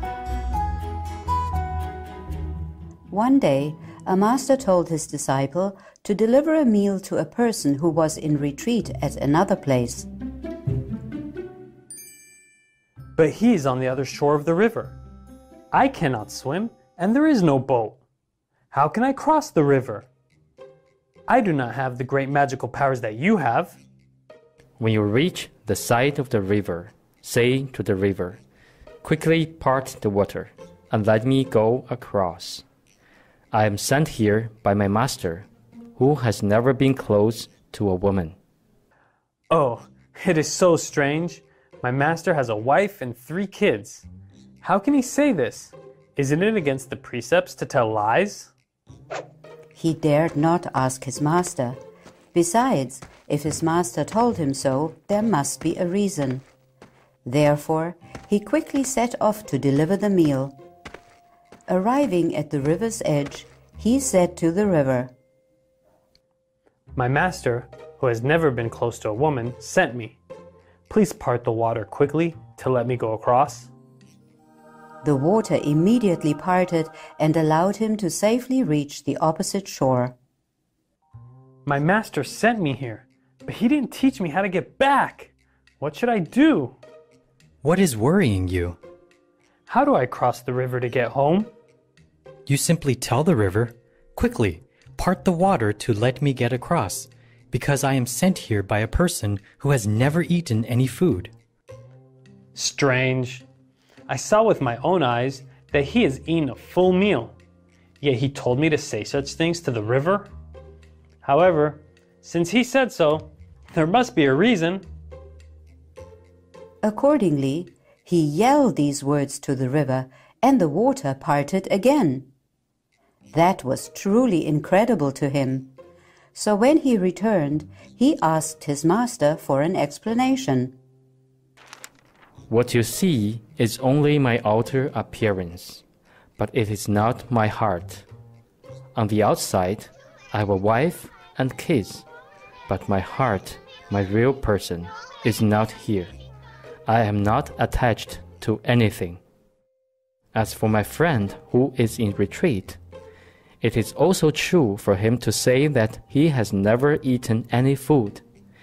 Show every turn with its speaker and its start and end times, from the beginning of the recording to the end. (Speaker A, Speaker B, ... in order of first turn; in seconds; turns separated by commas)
Speaker A: 3.1-10.1, Speaker B: 13.2-15.0, Speaker B: 15.7-18.0, Speaker B: 18.7-20.1, Speaker B: 21.3-23.8, Speaker C: 24.8-28.4, Speaker C: 29.0-32.6, Speaker C: 33.5-38.4, Speaker B: 39.5-44.1, Speaker B: 44.6-48.5, Speaker A: 49.8-51.8, Speaker A: 52.3-56.5, Speaker A: 57.2-60.6, Speaker A: 61.7-65.1, Speaker B: 67.0-70.2, Speaker B: 70.9-73.7, Speaker A: 75.0-80.2, Speaker B: 81.7-86.8, Speaker D: 87.6-88.8, Speaker B: 89.7-91.5, Speaker D: 92.5-101.3, Speaker B: 102.6-103.5, Speaker B: 104.1-107.4, Speaker B: 108.0-110.3, Speaker B: 111.2-114.9, Speaker A: 116.8-122.3, Speaker A: 123.3-125.7, Speaker A: 126.3-130.8, Speaker C: 132.5-135.8, Speaker C: 136.4-138.1, Speaker C: 138.9-142.1, Speaker C: 142.7-146.1, Speaker C: 146.9-149.2, Speaker C: 150.3-152.8, Speaker C: 153.6-158.2